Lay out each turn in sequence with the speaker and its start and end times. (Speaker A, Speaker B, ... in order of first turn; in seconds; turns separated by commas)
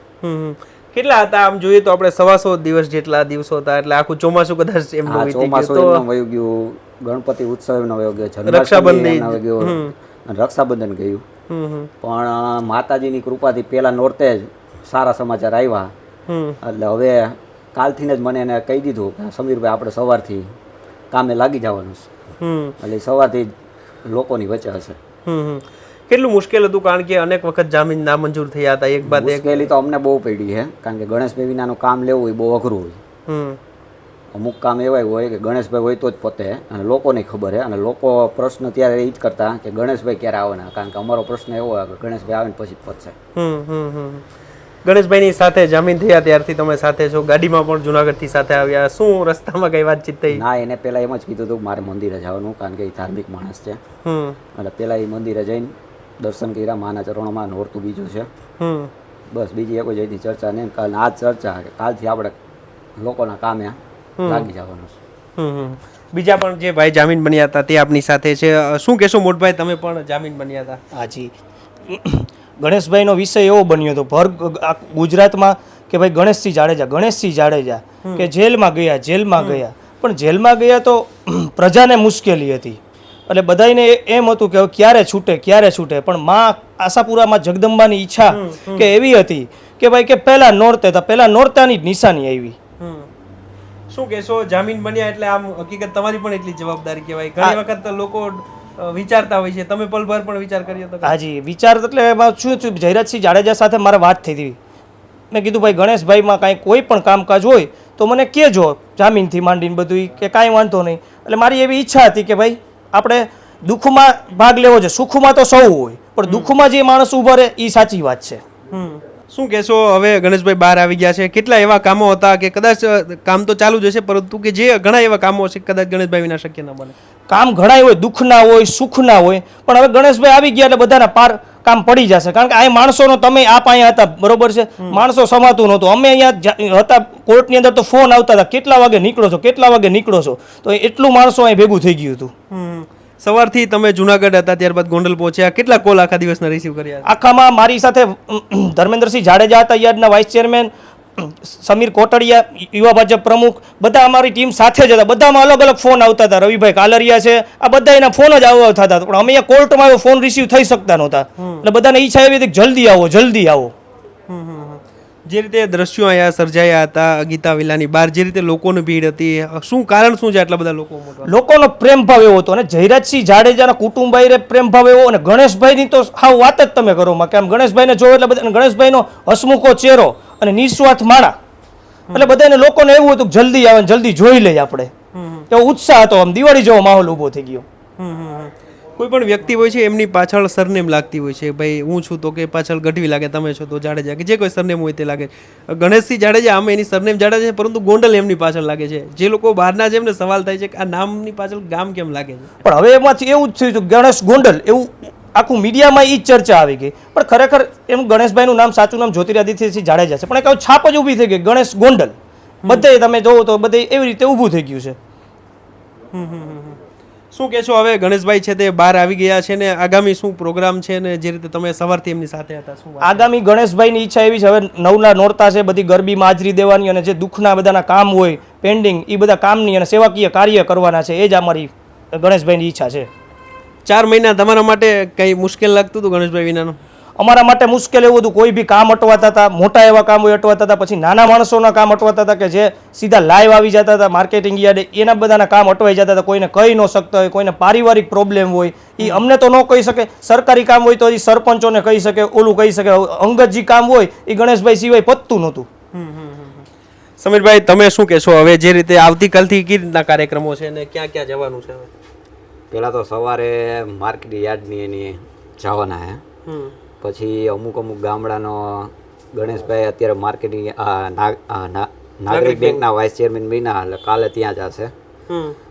Speaker A: 0.2-6.0, Speaker B: 5.1-11.2, Speaker A: 8.4-9.9, Speaker A: 11.5-11.9, Speaker B: 12.0-15.9, Speaker A: 16.3-16.6, Speaker B: 16.6-20.5, Speaker B: 21.1-22.1, Speaker A: 22.4-22.7, Speaker B: 22.8-23.5, Speaker B: 24.1-25.0, Speaker A: 25.3-29.7, Speaker B: 29.1-33.0, Speaker A: 33.3-33.6, Speaker B: 34.3-43.1, Speaker A: 43.4-44.2, Speaker A: 44.9-50.4, Speaker B: 50.3-53.8, Speaker A: 54.0-54.4, Speaker B: 54.5-58.3, Speaker A: 58.6-58.9, Speaker B: 59.3-62.3, Speaker B: 63.0-65.0, Speaker A: 64.2-64.5, Speaker A: 65.4-70.8, Speaker C: 70.9-71.3, Speaker C: 71.9-92.6, Speaker A: 78.0-78.3, Speaker A: 88.3-88.9, Speaker A: 92.8-93.1, Speaker A: 93.9-101.1, Speaker C: 101.0-104.6, Speaker C: 105.3-118.4, Speaker A: 116.3-116.5, Speaker A: 118.7-126.9, Speaker C: 127.3-142.3, Speaker A: 142.5-147.1, Speaker C: 147.1-163.7, Speaker A: 161.4-161.6, Speaker A: 164.3-171.3, Speaker C: 171.3-181.3, Speaker C: 182.1-184.9, Speaker A: 185.1-185.5, Speaker C: 185.5-187.7, Speaker A: 188.0-202.5, Speaker C: 202.6-212.1, Speaker C: 212.7-215.0, Speaker A: 216.1-216.8, Speaker A: 217.3-223.3, Speaker C: 223.0-233.1, Speaker A: 233.9-236.8, Speaker C: 237.2-255.7, Speaker A: 255.9-256.7, Speaker A: 257.2-261.9, Speaker B: 262.7-266.2, Speaker A: 266.5-266.8, Speaker B: 267.0-274.9, Speaker A: 272.3-272.8, Speaker A: 275.3-275.6